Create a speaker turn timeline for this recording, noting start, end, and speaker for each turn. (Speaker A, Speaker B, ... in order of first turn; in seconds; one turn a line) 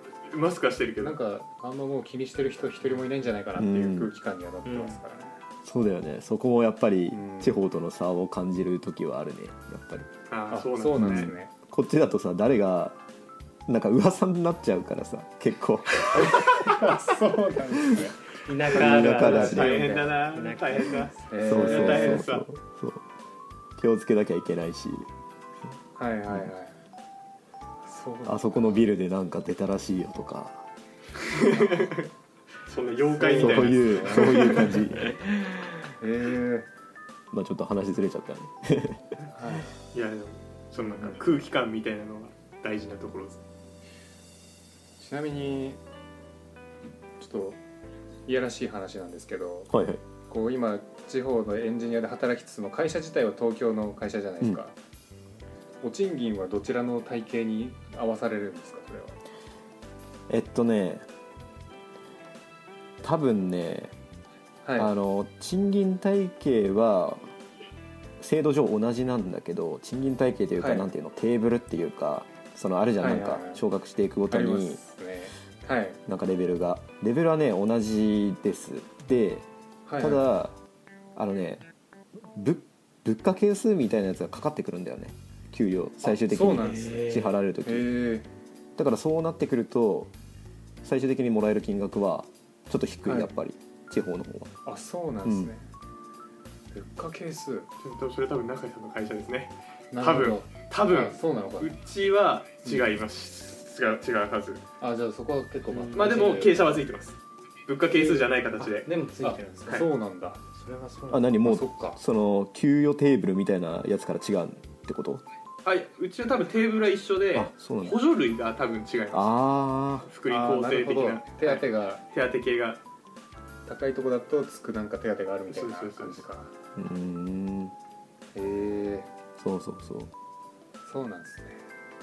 Speaker A: 0.3-1.2
Speaker B: 1.0-5.4
Speaker C: 3.5-4.1
Speaker D: 4.7-5.0
Speaker C: 5.6-10.1
Speaker B: 7.1-7.5
Speaker A: 10.3-11.3
Speaker B: 10.5-11.5
Speaker C: 11.0-13.0
Speaker C: 13.7-16.3
Speaker B: 16.1-18.1
Speaker D: 18.4-21.1
Speaker C: 18.7-19.8
Speaker B: 18.7-20.1
Speaker A: 19.0-22.5
Speaker B: 21.3-22.3
Speaker C: 21.4-23.0
Speaker C: 23.8-25.1
Speaker B: 25.9-26.7
Speaker B: 27.8-28.9
Speaker C: 28.2-30.7
Speaker A: 31.2-32.1
Speaker B: 31.5-31.8
Speaker A: 32.7-35.0
Speaker B: 33.0-34.8
Speaker C: 33.4-35.2
Speaker B: 36.0-36.7
Speaker C: 37.3-39.1
Speaker B: 39.3-39.7
Speaker A: 39.9-43.4
Speaker B: 40.8-41.2
Speaker B: 45.0-45.8
Speaker B: 47.2-47.6
Speaker B: 48.2-49.7
Speaker C: 49.7-50.0
Speaker B: 50.3-54.7
Speaker B: 55.8-59.2
Speaker C: 60.3-61.0
Speaker C: 63.0-63.9
Speaker B: 64.6-64.9
Speaker C: 64.8-67.3
Speaker C: 68.2-74.8
Speaker B: 70.6-70.9
Speaker B: 73.0-73.6
Speaker B: 74.3-76.0
Speaker C: 76.1-79.5
Speaker B: 79.8-80.2
Speaker C: 80.0-80.5
Speaker C: 81.1-81.7
Speaker C: 82.2-87.9
Speaker B: 86.0-88.3
Speaker D: 86.6-87.3
Speaker C: 88.8-90.1
Speaker C: 90.8-94.6
Speaker B: 93.0-93.3
Speaker B: 94.6-95.7
Speaker C: 95.2-95.5
Speaker B: 96.7-97.7
Speaker A: 97.8-104.6
Speaker B: 99.9-101.7
Speaker B: 104.8-106.7
Speaker D: 105.7-106.2
Speaker A: 105.9-108.9
Speaker D: 107.9-109.9
Speaker B: 109.2-110.4
Speaker D: 110.5-111.3
Speaker C: 111.1-115.2
Speaker B: 111.4-112.0
Speaker A: 115.6-119.3
Speaker C: 117.3-118.0
Speaker C: 119.1-120.1
Speaker A: 120.0-122.8
Speaker B: 120.2-122.0
Speaker B: 123.7-126.5
Speaker A: 125.5-126.2
Speaker C: 126.8-127.7
Speaker B: 128.3-129.1
Speaker C: 129.4-130.1
Speaker B: 130.8-131.6